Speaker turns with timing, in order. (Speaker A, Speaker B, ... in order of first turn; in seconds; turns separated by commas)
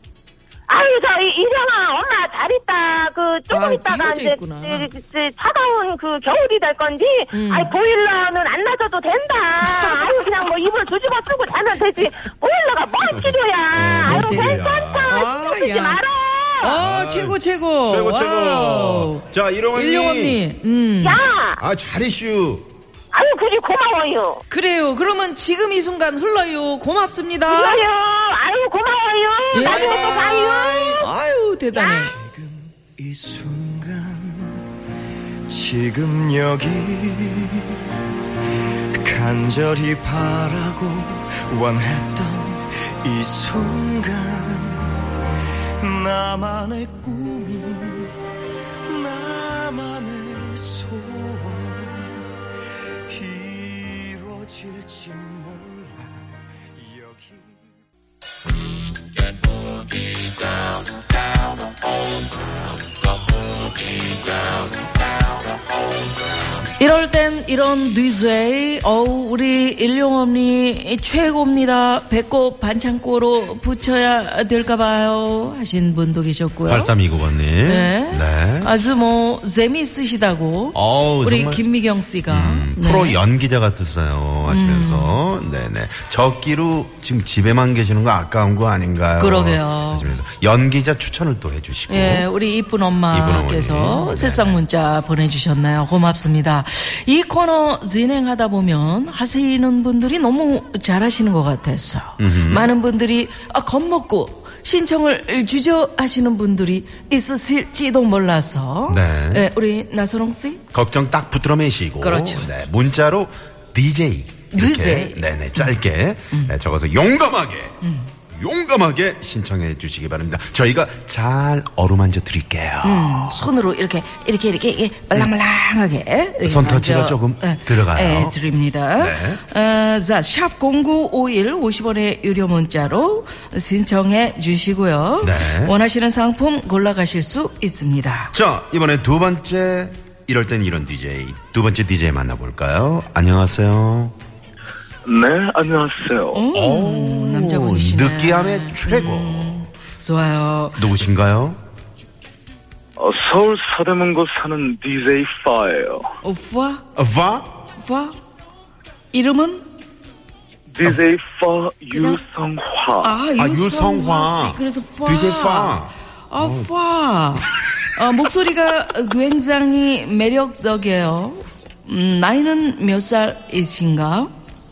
Speaker A: 0.7-16.8, Speaker B: 3.5-4.9, Speaker B: 7.3-7.7, Speaker B: 9.6-10.0, Speaker C: 13.1-15.2, Speaker B: 14.0-16.0, Speaker B: 16.6-21.2, Speaker C: 16.8-20.4, Speaker A: 21.0-21.6, Speaker C: 21.6-22.7, Speaker A: 23.1-24.4, Speaker B: 24.5-27.9, Speaker A: 27.5-31.1, Speaker B: 29.5-32.1, Speaker C: 29.6-31.0, Speaker A: 31.7-32.1, Speaker D: 32.1-34.7, Speaker D: 35.5-37.8, Speaker D: 39.0-45.0, Speaker D: 45.8-48.2, Speaker D: 48.9-52.3, Speaker D: 53.1-57.7, Speaker B: 66.8-76.9, Speaker C: 76.7-78.8, Speaker B: 77.7-83.2, Speaker C: 80.8-81.7, Speaker C: 82.3-92.3, Speaker B: 84.5-85.2, Speaker B: 89.2-90.1, Speaker B: 91.9-110.6, Speaker C: 93.1-94.6, Speaker C: 102.2-102.7, Speaker C: 108.9-109.5, Speaker C: 110.7-117.8, Speaker B: 112.0-112.5, Speaker B: 114.5-115.7, Speaker B: 117.8-118.1, Speaker C: 118.3-123.4, Speaker B: 122.8-138.3, Speaker C: 126.4-128.4, Speaker C: 129.0-129.4, Speaker C: 135.2-135.8, Speaker C: 138.3-144.1, Speaker E: 145.1-146.4, Speaker B: 146.3-150.9, Speaker C: 146.5-149.7, Speaker C: 150.8-151.6, Speaker E: 153.0-156.1, Speaker B: 156.2-156.8, Speaker C: 157.0-157.5, Speaker B: 157.8-158.2, Speaker B: 159.1-159.7, Speaker E: 160.7-163.2, Speaker B: 161.9-162.2, Speaker B: 163.0-174.3, Speaker C: 163.4-166.7